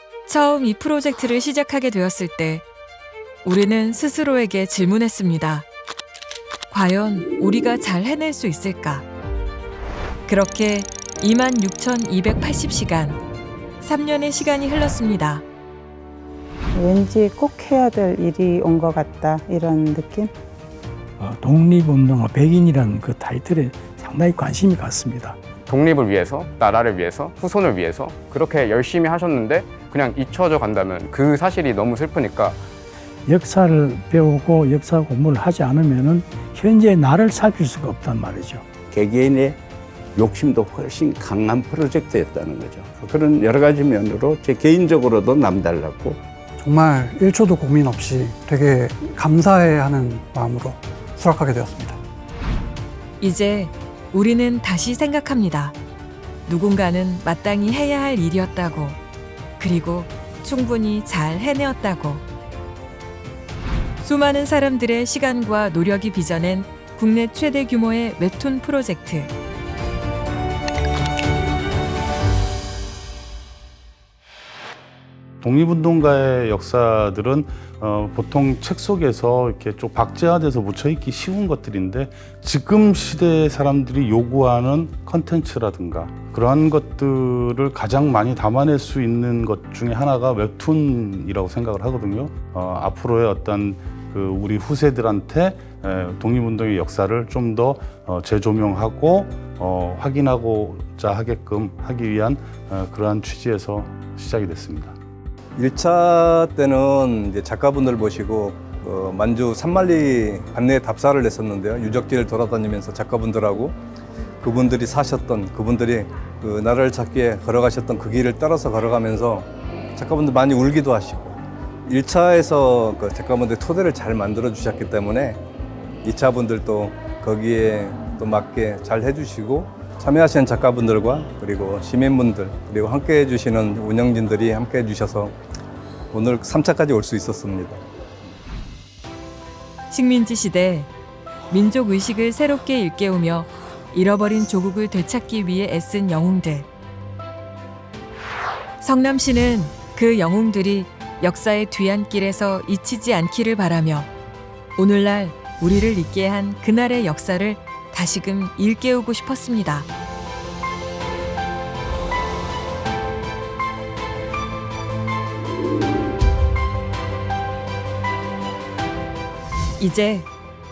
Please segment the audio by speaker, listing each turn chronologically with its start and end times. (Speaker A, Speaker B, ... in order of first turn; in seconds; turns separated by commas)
Speaker A: 0.3-2.6, Speaker A: 3.4-5.7, Speaker A: 6.7-9.1, Speaker A: 10.3-13.2, Speaker A: 13.8-15.4, Speaker B: 16.7-20.3, Speaker C: 21.2-25.4, Speaker D: 25.6-32.6, Speaker C: 33.3-38.6, Speaker E: 38.9-39.6, Speaker E: 40.2-46.2, Speaker F: 46.6-52.0, Speaker A: 53.2-55.8, Speaker A: 56.5-59.0, Speaker A: 59.6-62.2, Speaker A: 64.0-69.3, Speaker G: 75.4-105.0, Speaker H: 105.6-113.8, Speaker H: 114.4-125.4, Speaker H: 126.0-135.4, Speaker H: 136.1-137.8, Speaker A: 139.9-140.9, Speaker A: 141.5-146.7, Speaker A: 148.8-154.1, Speaker A: 154.8-159.9, Speaker A: 169.8-170.3